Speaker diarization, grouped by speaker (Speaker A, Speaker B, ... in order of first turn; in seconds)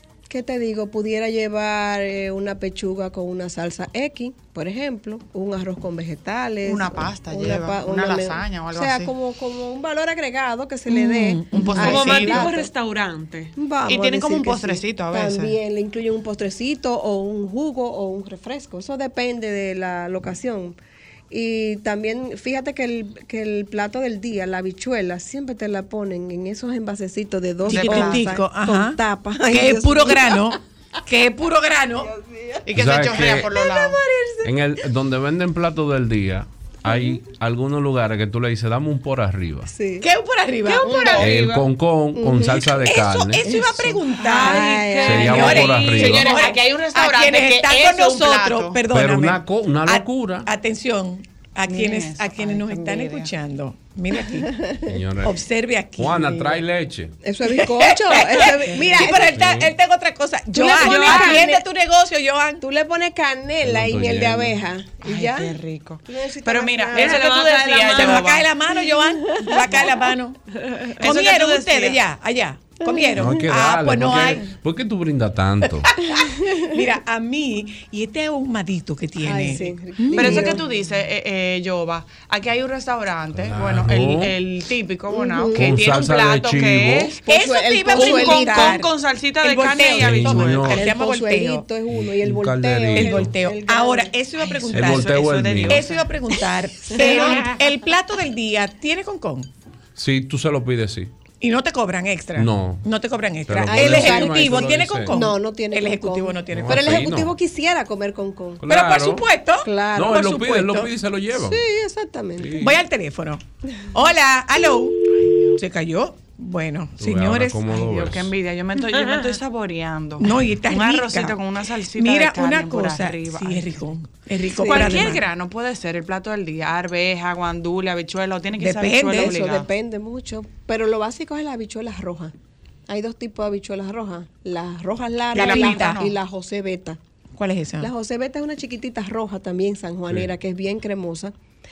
Speaker A: 0.3-12.7, 13.6-20.8, 21.3-30.6, 32.0-32.7, 33.3-34.6, 36.9-37.2, 39.7-40.1, 42.1-42.9, 43.5-45.9, 57.2-59.5, 60.5-61.6, 62.6-67.4, 69.2-69.9, 72.8-73.4, 76.1-76.7, 79.2-80.6, 85.1-85.9, 87.2-88.8, 90.6-94.1, 96.9-97.5, 103.7-108.6, 109.6-112.7, 129.2-132.3, 132.9-137.0, 137.8-141.3
Speaker B: 6.6-9.1, 11.5-12.4, 13.9-15.6, 27.7-28.4, 32.7-34.0, 40.8-41.6, 45.6-48.8, 51.7-53.3, 65.0-68.5, 71.0-72.0, 80.1-87.2, 87.9-90.9, 94.4-96.1, 117.7-123.7, 124.6-129.7, 135.3-136.1
Speaker C: 10.9-12.5, 27.6-32.1, 40.0-41.3, 42.8-54.6, 55.2-56.5, 57.4-62.6, 68.0-70.4, 71.0-74.4, 76.7-80.5, 87.2-88.9, 89.4-91.7, 92.9-99.5, 101.4-107.2, 108.7-110.9, 112.6-115.0, 115.5-117.8, 120.2-121.4, 121.9-125.3, 128.6-129.4, 135.3-136.1, 137.4-137.9
Speaker D: 11.8-13.5, 40.8-41.3, 44.3-46.5, 60.6-61.5, 66.9-68.3, 118.8-119.4
Speaker E: 32.8-33.5, 34.4-39.7, 41.2-43.5, 45.0-46.3, 48.9-50.5, 54.9-55.3, 56.0-57.1, 59.3-59.7, 63.6-64.6, 73.2-75.9, 83.3-84.3, 85.5-87.2, 89.9-90.9, 91.9-93.4, 94.7-95.9, 100.0-101.1, 102.4-102.8, 103.5-105.2, 106.5-107.4, 108.6-109.2, 109.9-111.6, 112.4-112.8, 117.0-118.3